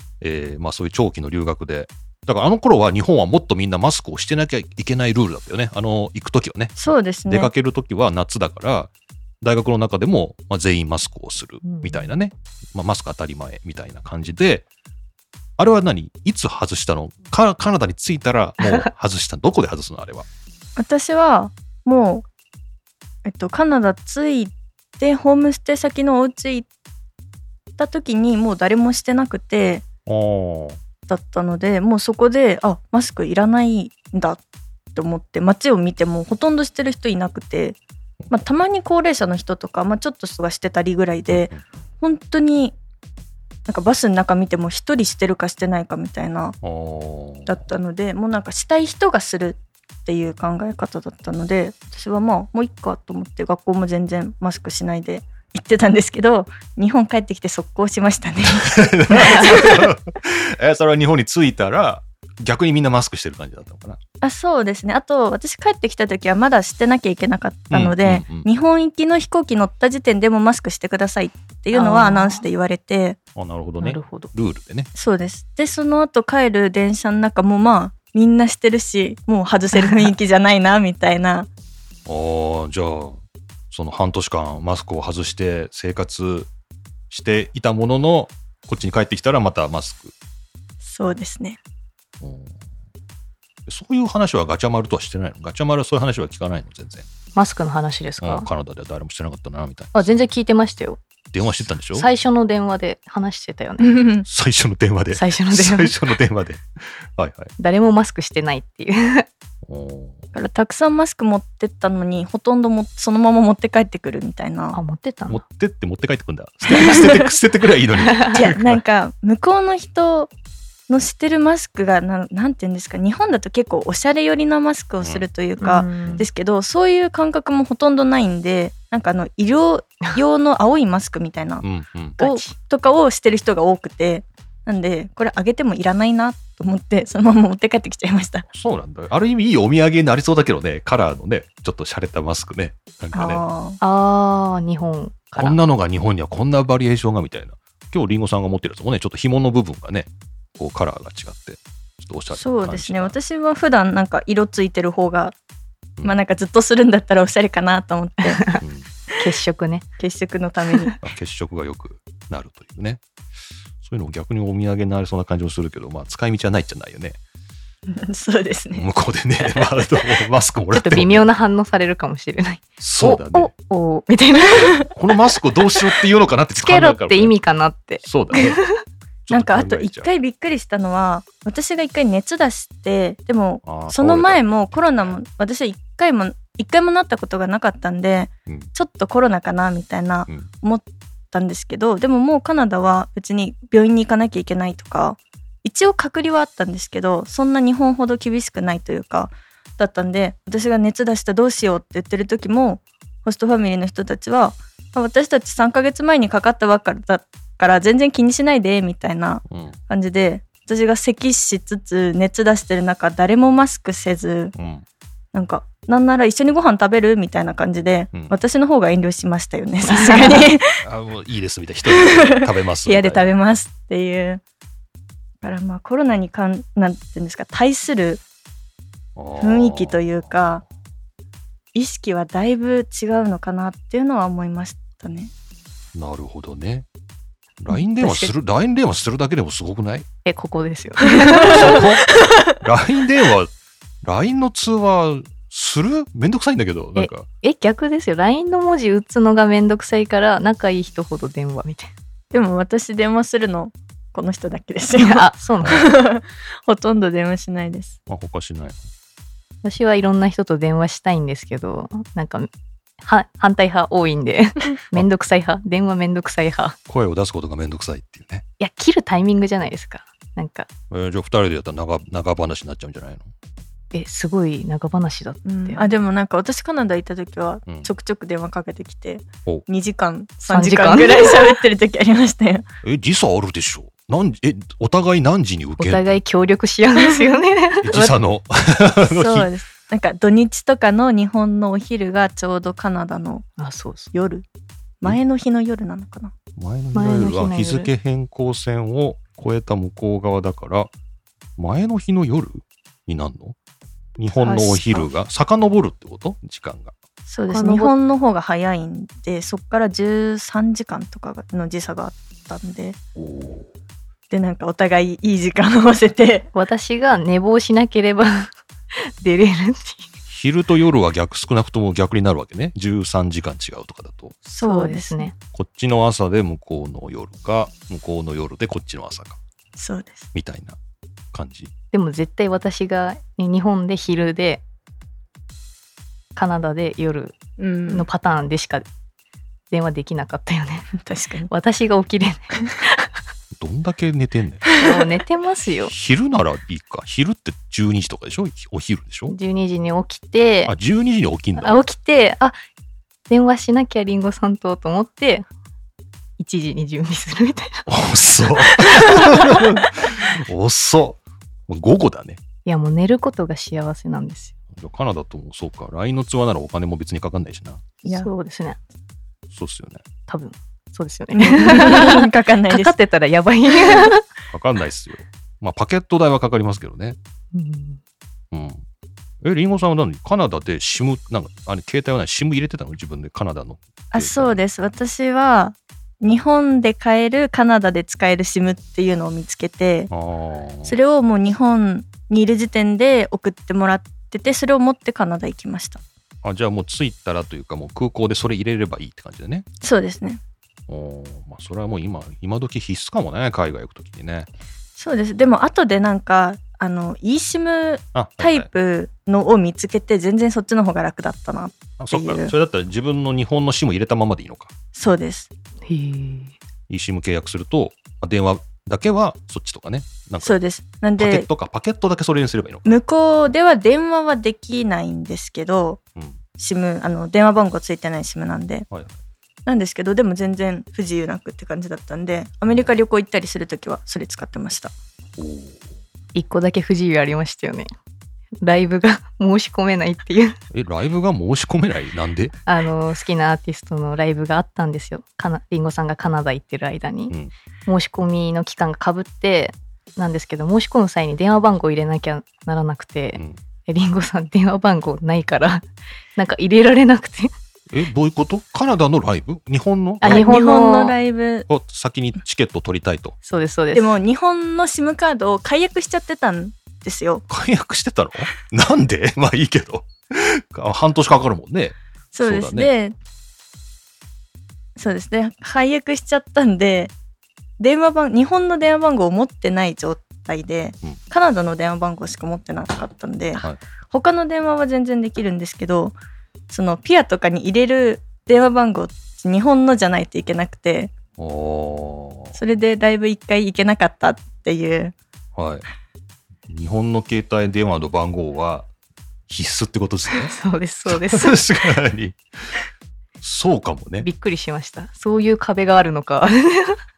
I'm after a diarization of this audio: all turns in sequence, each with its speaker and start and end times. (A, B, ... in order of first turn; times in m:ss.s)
0:00.2-0:08.9 A
0:06.8-0:07.5 B
0:09.4-0:14.6 A
0:11.6-0:12.1 C
0:15.6-0:20.3 A
0:18.6-0:18.9 C
0:20.8-0:22.3 B
0:23.2-0:26.7 B
0:27.8-0:29.8 B
0:30.1-0:30.8 A
0:31.1-0:34.4 B
0:35.0-0:37.8 B
0:38.3-0:42.8 B
0:41.3-0:41.6 A
0:43.7-0:46.6 B
0:46.6-0:47.6 A
0:47.5-0:59.9 B
0:58.5-1:04.0 A
1:04.2-1:13.2 B
1:07.7-1:08.5 A
1:11.7-1:12.4 C
1:13.4-1:14.9 A
1:13.8-1:14.3 C
1:14.9-1:21.5 B
1:19.7-1:20.1 C
1:22.1-1:23.2 A
1:23.7-1:26.5 A
1:27.1-1:30.1 A
1:30.8-1:31.6 B
1:32.2-1:32.6 A
1:33.7-1:37.1 A
1:37.4-1:38.5 C
1:38.2-1:40.2 A
1:40.0-1:43.9 C
1:41.3-1:42.1 A
1:43.8-1:44.3 B
1:44.3-1:46.6 A
1:45.1-1:46.0 C
1:47.2-1:47.5 A
1:47.6-1:49.3 C
1:49.6-1:50.2 A
1:50.3-1:54.8 B
1:54.7-1:55.4 C
1:55.3-1:58.8 A
1:56.7-1:57.3 B
1:58.0-1:58.4 C
1:58.3-2:00.3 B
2:00.9-2:11.7 B
2:05.0-2:05.3 A
2:05.6-2:06.3 C
2:11.6-2:12.2 A
2:12.2-2:12.5 C
2:12.2-2:18.5 B
2:18.5-2:23.4 A
2:23.1-2:23.8 B
2:23.8-2:25.6 C
2:25.4-2:33.2 A
2:32.3-2:35.4 B
2:36.0-2:38.4 B
2:38.3-2:38.6 C
2:38.6-2:38.9 A
2:39.2-2:39.8 C
2:40.0-2:40.9 B
2:41.0-2:43.0 A
2:43.8-2:47.2 A
2:47.9-2:48.9 B
2:48.8-2:51.3 A
2:50.7-2:54.8 C
2:52.8-2:53.5 A
2:54.9-2:57.4 A
2:56.6-2:58.7 C
2:58.0-2:58.6 A
2:59.3-3:00.1 A
2:59.3-3:34.5 B
3:03.6-3:05.2 A
3:29.5-3:29.8 A
3:34.6-3:34.8 A
3:35.3-3:40.8 B
3:39.9-3:40.5 C
3:40.8-3:43.3 A
3:41.9-3:44.4 B
3:45.4-3:48.2 B
3:49.2-3:50.5 A
3:49.4-3:50.6 B
3:51.7-3:55.3 B
3:56.0-3:56.9 A
3:57.6-4:00.1 A
3:57.7-3:58.3 C
4:00.3-4:01.8 C
4:01.4-4:03.5 A
4:04.0-4:07.3 A
4:07.0-4:11.9 C
4:12.3-4:18.0 B
4:15.0-4:15.9 C
4:15.6-4:15.9 A
4:18.1-4:18.8 A
4:19.6-4:22.5 C
4:23.0-4:26.8 C
4:26.9-4:28.4 A
4:28.6-4:30.7 C
4:30.9-4:33.3 A
4:33.9-4:35.8 C
4:35.5-4:42.7 B
4:40.5-4:41.6 C
4:42.8-4:46.1 A
4:45.8-4:48.2 C
4:47.0-4:47.2 B
4:47.8-4:49.5 A
4:49.0-4:53.5 B
4:53.6-4:54.1 C
4:54.1-4:54.5 B
4:55.0-4:56.3 B
4:56.6-5:00.9 A
4:56.9-4:57.9 C
5:01.6-5:03.6 A
5:04.2-5:07.0 A
5:04.4-5:05.0 C
5:07.2-5:13.0 B
5:07.5-5:07.9 C
5:13.2-5:13.7 A
5:14.3-5:16.5 B
5:16.5-5:18.5 C
5:19.2-5:20.1 C
5:20.3-5:24.4 A
5:24.5-5:25.3 B
5:24.6-5:25.3 C
5:25.5-5:29.4 A
5:29.8-5:30.3 B
5:30.4-5:30.8 A
5:31.3-5:31.7 A
5:31.9-5:34.6 C
5:36.4-5:37.4 C
5:37.6-5:38.1 B
5:37.9-5:38.9 C
5:39.7-5:40.9 C
5:41.0-5:41.5 B
5:41.5-5:43.1 C
5:43.6-5:44.7 A
5:44.8-5:45.9 C
5:45.9-5:49.4 A
5:49.3-5:50.7 C
5:50.7-5:51.8 A
5:51.6-5:52.5 C
5:53.3-5:55.4 C
5:56.4-5:57.8 C
5:57.9-6:02.4 A
5:58.6-5:59.0 B
6:02.7-6:04.5 C
6:04.7-6:07.8 A
6:08.0-6:08.8 C
6:09.5-6:10.0 A
6:10.3-6:14.2 C
6:11.3-6:13.0 B
6:14.5-6:17.2 A
6:17.5-6:18.0 C
6:18.5-6:18.8 A
6:19.4-6:24.6 A
6:24.1-6:30.1 B
6:30.1-6:31.0 A
6:30.8-6:36.0 B
6:36.4-6:39.7 A
6:39.8-6:40.4 B
6:40.9-6:44.5 A
6:45.0-6:52.5 B
6:48.1-6:48.7 A
6:52.0-6:54.7 A
6:55.0-6:55.5 B
6:55.9-6:56.5 C
6:56.9-7:00.6 A
7:00.4-7:01.5 B
7:01.2-7:02.9 A
7:02.8-7:06.0 B
7:06.6-7:08.9 B
7:08.9-7:09.2 A
7:09.7-7:14.9 B
7:12.7-7:13.0 A
7:15.4-7:15.8 A
7:16.4-7:17.9 C
7:18.6-7:20.6 C
7:20.7-7:22.6 A
7:22.7-7:27.3 C
7:27.9-7:35.8 C
7:36.4-7:37.5 C
7:37.9-7:40.5 A
7:40.2-7:41.2 C
7:40.3-7:41.7 B
7:41.7-7:43.4 A
7:43.4-7:44.2 C
7:43.9-7:47.4 B
7:47.5-7:52.9 A
7:52.3-7:53.2 B
7:55.0-7:57.1 B
7:57.8-8:06.2 B
8:06.7-8:11.1 B
8:11.4-8:12.6 A
8:12.6-8:15.2 B
8:15.6-8:15.9 A
8:16.7-8:18.9 A
8:19.5-8:20.5 A
8:20.3-8:21.6 C
8:21.1-8:22.8 A
8:23.4-8:24.3 A
8:24.2-8:27.0 C